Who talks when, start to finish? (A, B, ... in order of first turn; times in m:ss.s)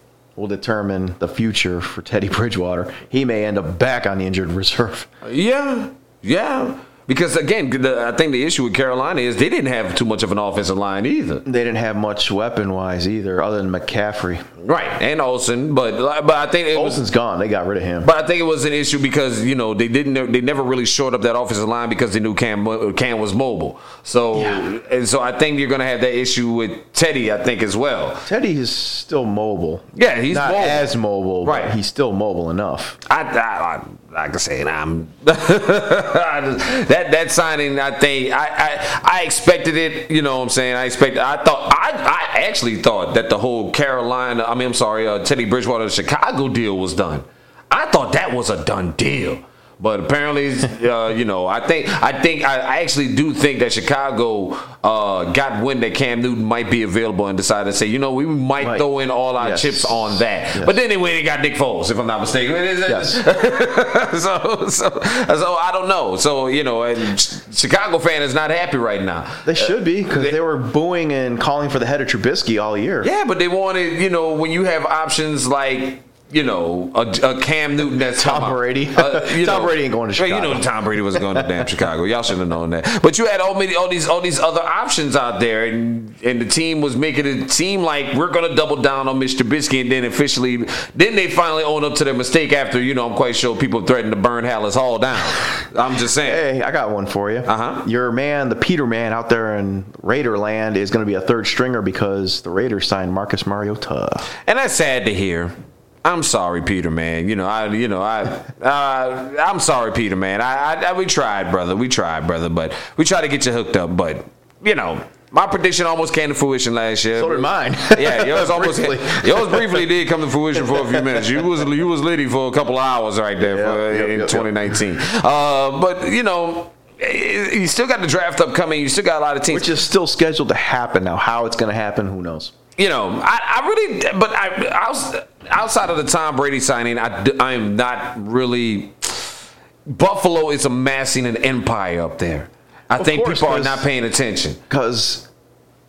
0:00.4-0:05.1 A
0:05.2-0:11.4 B
0:11.4-0:14.4 A
0:14.6-0:17.0 B
0:16.7-0:18.1 A
0:18.0-0:28.2 B
0:24.3-0:24.6 A
0:28.2-0:33.0 A
0:29.9-0:30.9 B
0:31.4-0:31.7 B
0:33.1-1:10.3 B
0:58.6-0:58.9 A
0:59.4-1:00.8 A
1:02.8-1:03.2 A
1:09.4-1:13.1 A
1:13.0-1:36.4 B
1:18.2-1:21.7 A
1:36.2-1:44.3 A
1:37.4-1:37.8 B
1:44.4-2:09.8 B
1:57.1-1:59.9 A
2:00.6-2:01.4 A
2:03.4-2:04.8 A
2:09.5-2:12.5 A
2:12.8-2:19.3 B
2:19.9-2:24.6 B
2:23.0-2:23.9 A
2:24.7-2:25.3 A